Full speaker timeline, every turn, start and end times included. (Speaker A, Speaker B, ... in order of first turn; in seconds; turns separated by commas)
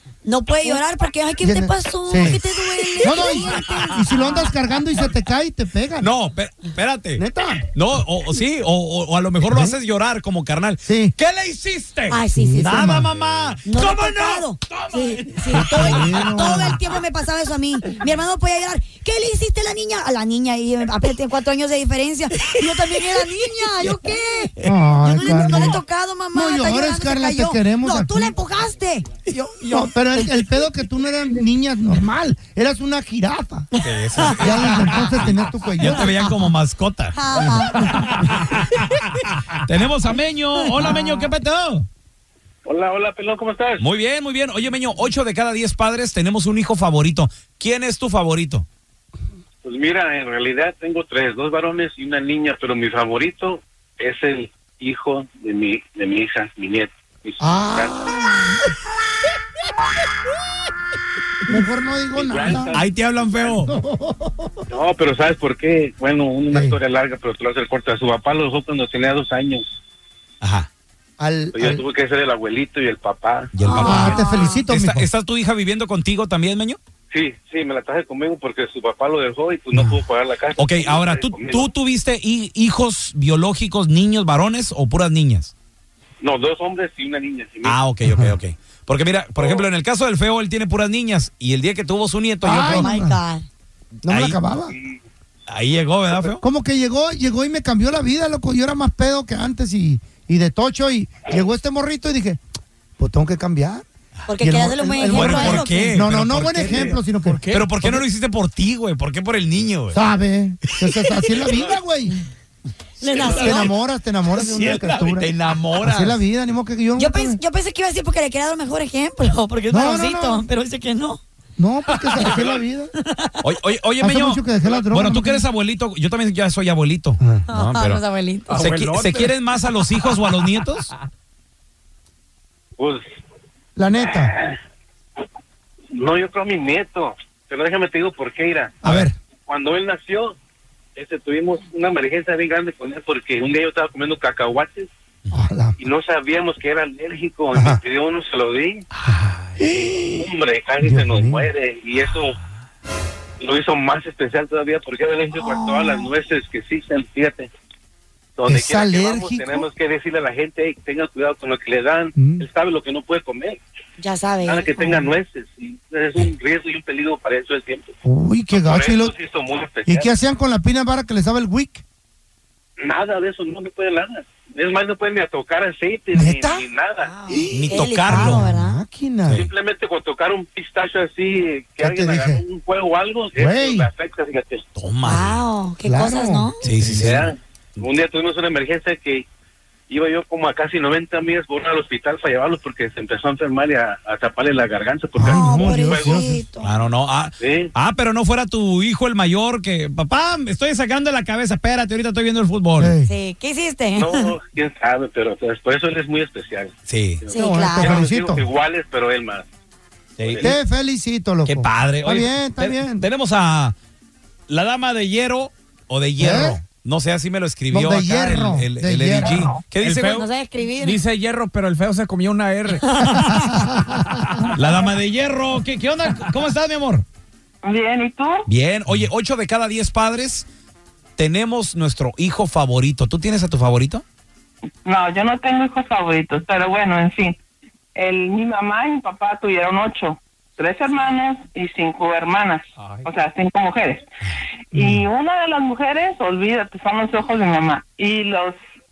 Speaker A: 0.2-4.5, Speaker B: 1.4-2.4, Speaker B: 3.0-6.1, Speaker C: 6.0-16.8, Speaker B: 7.2-7.7, Speaker B: 9.5-9.8, Speaker B: 10.8-11.1, Speaker A: 12.1-12.8, Speaker B: 12.3-13.1, Speaker A: 13.7-30.2, Speaker B: 15.5-16.8, Speaker B: 24.6-25.8, Speaker B: 26.3-28.3, Speaker B: 29.6-33.7, Speaker C: 33.8-37.5, Speaker B: 34.2-36.2, Speaker A: 37.1-38.1, Speaker C: 38.1-38.5, Speaker C: 39.6-41.9, Speaker A: 40.7-41.3, Speaker D: 42.6-43.8, Speaker C: 43.8-48.6, Speaker D: 49.6-58.0, Speaker B: 57.4-58.5, Speaker B: 61.4-62.7, Speaker D: 62.1-63.7, Speaker C: 62.7-63.7, Speaker B: 63.6-64.6, Speaker D: 64.7-69.6, Speaker B: 66.5-66.8, Speaker C: 70.4-70.7, Speaker B: 71.2-71.8, Speaker D: 71.5-74.3, Speaker C: 73.5-74.1, Speaker A: 73.6-74.6, Speaker B: 73.8-75.1, Speaker C: 74.6-76.8, Speaker D: 77.1-81.7, Speaker C: 80.5-85.5, Speaker D: 86.2-87.8, Speaker C: 87.6-92.9, Speaker B: 88.0-88.4, Speaker D: 89.4-89.7, Speaker B: 92.4-93.2, Speaker A: 92.6-93.5, Speaker C: 94.0-94.4, Speaker B: 94.0-94.7, Speaker C: 95.5-96.4, Speaker B: 96.4-102.4, Speaker B: 103.0-103.8, Speaker A: 104.3-105.9, Speaker B: 104.4-107.4, Speaker C: 105.1-110.0, Speaker E: 106.7-108.0, Speaker B: 109.9-112.2, Speaker A: 113.0-113.7, Speaker C: 113.2-113.7, Speaker B: 113.2-117.4, Speaker C: 114.3-116.2, Speaker A: 117.0-121.2, Speaker B: 119.7-120.4, Speaker B: 121.6-122.9, Speaker A: 123.0-123.5, Speaker C: 123.4-130.9, Speaker B: 124.0-125.5, Speaker D: 124.6-124.8, Speaker B: 127.2-127.5, Speaker A: 127.5-128.6, Speaker E: 128.5-129.3, Speaker B: 133.8-134.3, Speaker D: 134.1-134.5, Speaker D: 135.9-138.7, Speaker B: 138.8-139.1, Speaker D: 139.5-140.3, Speaker D: 140.9-144.9, Speaker B: 145.3-145.8, Speaker D: 145.8-148.8, Speaker B: 147.5-147.8, Speaker B: 149.7-150.3, Speaker D: 150.0-152.4, Speaker B: 150.8-151.4, Speaker D: 153.4-157.5, Speaker A: 155.3-156.1, Speaker D: 158.4-163.6, Speaker B: 158.4-159.7, Speaker B: 162.1-162.5, Speaker A: 164.0-165.0, Speaker D: 164.4-167.9, Speaker B: 168.0-169.1, Speaker D: 168.5-170.1, Speaker B: 169.8-171.8, Speaker D: 172.8-177.1, Speaker B: 176.1-176.7, Speaker A: 177.0-178.8, Speaker B: 177.3-179.5, Speaker C: 177.5-178.4, Speaker D: 179.3-184.6, Speaker B: 181.8-182.4, Speaker B: 183.3-183.9, Speaker C: 184.8-185.4, Speaker A: 185.0-186.7, Speaker B: 185.8-186.5, Speaker C: 186.6-187.9, Speaker D: 186.7-189.2, Speaker D: 189.9-196.4, Speaker B: 195.2-196.4, Speaker A: 195.2-196.7, Speaker C: 196.6-202.9, Speaker D: 197.4-197.7, Speaker B: 202.8-203.1, Speaker A: 203.0-204.3, Speaker D: 203.9-209.4, Speaker C: 206.9-207.3, Speaker A: 207.3-208.0, Speaker B: 207.3-208.4, Speaker C: 210.2-210.5, Speaker D: 210.2-210.6, Speaker B: 210.4-213.1, Speaker C: 211.4-213.7, Speaker C: 214.5-220.2, Speaker B: 216.2-216.6, Speaker B: 217.7-219.4, Speaker E: 219.3-220.2, Speaker A: 220.1-221.0, Speaker E: 220.8-222.9, Speaker A: 222.9-223.3, Speaker B: 223.2-224.3, Speaker C: 224.5-227.0, Speaker F: 227.6-228.5, Speaker C: 228.5-230.4, Speaker C: 231.2-234.0, Speaker F: 234.8-237.4, Speaker F: 237.9-244.0, Speaker F: 244.7-248.6